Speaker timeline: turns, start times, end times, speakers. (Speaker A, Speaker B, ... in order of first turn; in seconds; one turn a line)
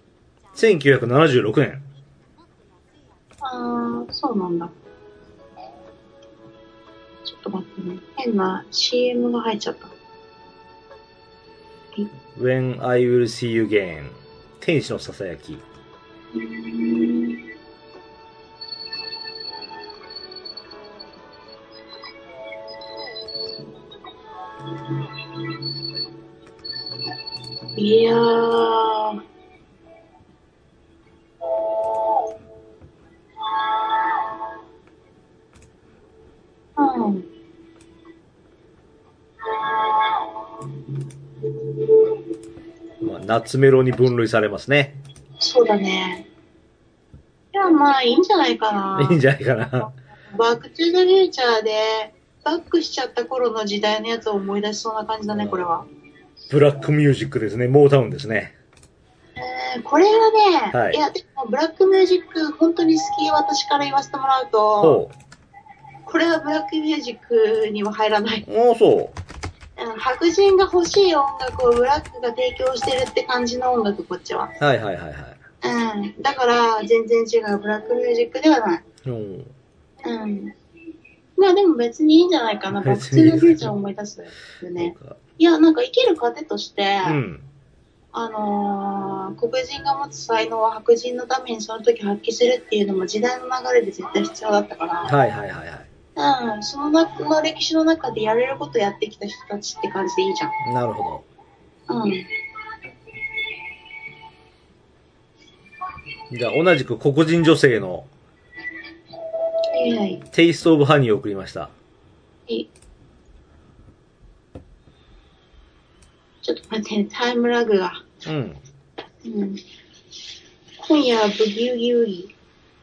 Speaker A: 0.5-1.8
Speaker B: 3.4-4.7
Speaker B: 7.2-9.9
Speaker A: 12.3-15.6
Speaker B: 16.3-17.4
Speaker B: 24.9-25.6
Speaker B: 27.8-29.2
Speaker B: 36.8-37.2
Speaker B: 39.6-40.2
Speaker A: 43.0-45.0
Speaker B: 45.4-46.3
Speaker B: 47.5-49.2
Speaker A: 49.0-49.9
Speaker B: 50.3-55.9
Speaker A: 55.3-55.7
Speaker A: 56.5-58.5
Speaker B: 59.4-65.0
Speaker A: 60.7-61.0
Speaker A: 64.8-65.1
Speaker B: 66.0-68.4
Speaker A: 68.5-69.2
Speaker B: 69.8-74.5
Speaker A: 74.6-75.4
Speaker B: 75.6-78.8
Speaker A: 79.0-79.5
Speaker B: 80.0-80.5
Speaker B: 81.4-87.2
Speaker A: 82.8-83.7
Speaker A: 84.8-85.2
Speaker A: 87.0-87.4
Speaker B: 88.1-95.1
Speaker A: 95.1-95.9
Speaker B: 96.2-100.5
Speaker A: 100.6-101.2
Speaker B: 101.9-102.2
Speaker A: 106.3-108.1
Speaker B: 109.7-110.2
Speaker A: 110.3-111.7
Speaker B: 116.4-118.1
Speaker A: 118.2-118.6
Speaker B: 119.2-119.6
Speaker B: 120.8-122.3